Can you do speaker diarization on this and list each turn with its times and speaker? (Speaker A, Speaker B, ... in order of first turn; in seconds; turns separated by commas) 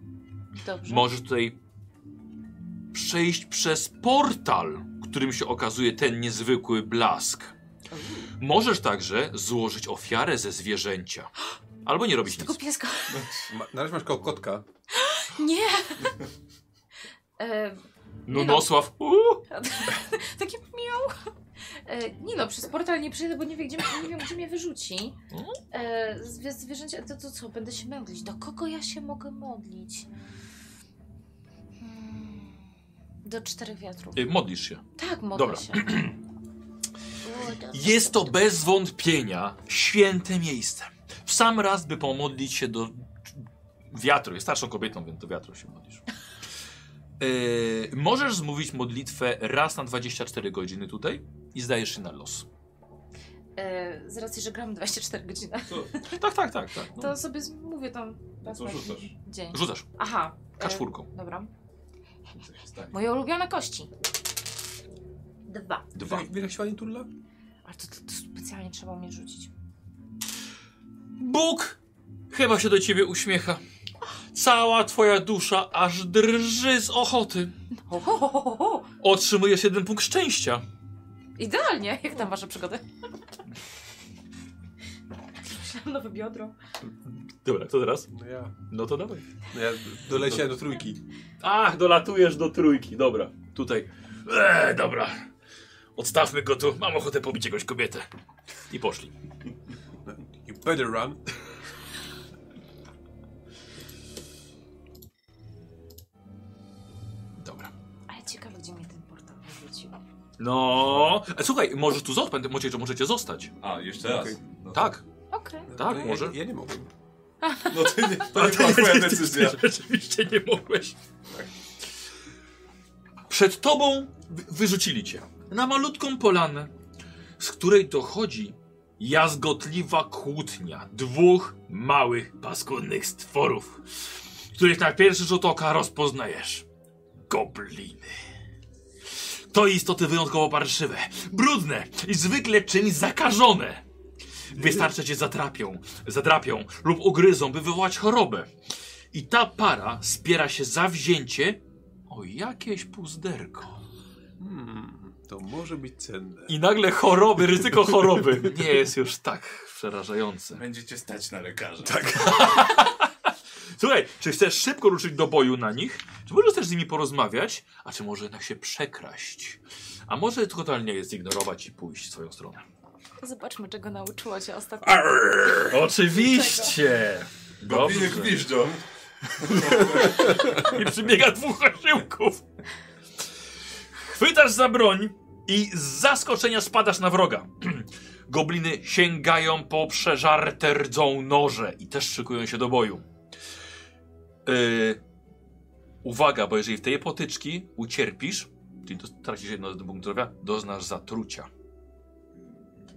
Speaker A: 0.6-1.1, Speaker B: 0.9-1.6, Speaker B: 2.9-7.5, Speaker A: 7.9-8.3, Speaker B: 8.4-11.3, Speaker B: 11.8-12.6, Speaker A: 12.2-13.3, Speaker C: 13.1-13.5, Speaker D: 13.5-14.7, Speaker A: 14.9-16.2, Speaker A: 17.4-18.8, Speaker B: 18.3-19.4, Speaker A: 19.5-21.3, Speaker A: 21.8-25.2, Speaker B: 25.3-25.6, Speaker A: 25.7-30.1, Speaker A: 31.8-32.7, Speaker A: 33.2-34.2, Speaker B: 34.1-34.8, Speaker A: 35.0-36.1, Speaker B: 35.3-36.2, Speaker A: 37.2-38.3, Speaker B: 37.7-46.0, Speaker B: 47.2-52.5, Speaker A: 53.6-56.0, Speaker B: 56.0-57.2, Speaker A: 57.0-61.5, Speaker C: 58.4-59.1, Speaker B: 59.5-59.9, Speaker B: 60.6-61.1, Speaker C: 62.3-63.0, Speaker A: 62.9-63.9, Speaker A: 65.5-65.9, Speaker B: 65.9-66.3, Speaker D: 66.0-67.1, Speaker A: 67.7-69.5, Speaker B: 71.2-71.8, Speaker B: 72.3-73.6, Speaker B: 74.3-77.5, Speaker A: 77.9-78.9, Speaker B: 79.0-80.6, Speaker A: 81.4-82.8, Speaker A: 85.5-86.5, Speaker B: 87.4-88.1, Speaker D: 88.1-88.5, Speaker B: 88.7-89.2, Speaker D: 89.5-91.0, Speaker B: 91.4-95.3, Speaker B: 96.0-98.1, Speaker B: 98.7-99.1, Speaker D: 100.1-101.2, Speaker B: 107.4-107.7, Speaker A: 108.1-110.0, Speaker B: 110.4-113.5, Speaker C: 113.6-115.0, Speaker D: 114.0-114.4, Speaker B: 114.7-115.0, Speaker A: 115.3-115.7, Speaker D: 115.7-116.9, Speaker B: 115.7-116.4, Speaker A: 117.4-118.1, Speaker C: 117.7-119.6, Speaker B: 118.3-121.0, Speaker B: 123.3-126.7, Speaker B: 127.4-133.9, Speaker B: 134.5-136.7, Speaker B: 137.3-138.2, Speaker B: 139.2-143.8, Speaker B: 144.5-148.5, Speaker D: 144.6-144.9, Speaker B: 149.1-153.8, Speaker D: 154.4-156.6, Speaker B: 156.5-160.6, Speaker C: 160.5-162.6, Speaker D: 161.8-162.5, Speaker B: 162.2-163.1, Speaker B: 163.7-172.6, Speaker A: 173.2-176.8, Speaker B: 175.6-178.5, Speaker C: 177.6-180.7, Speaker B: 179.5-182.4, Speaker B: 183.9-193.1, Speaker B: 194.5-195.0, Speaker B: 196.0-201.5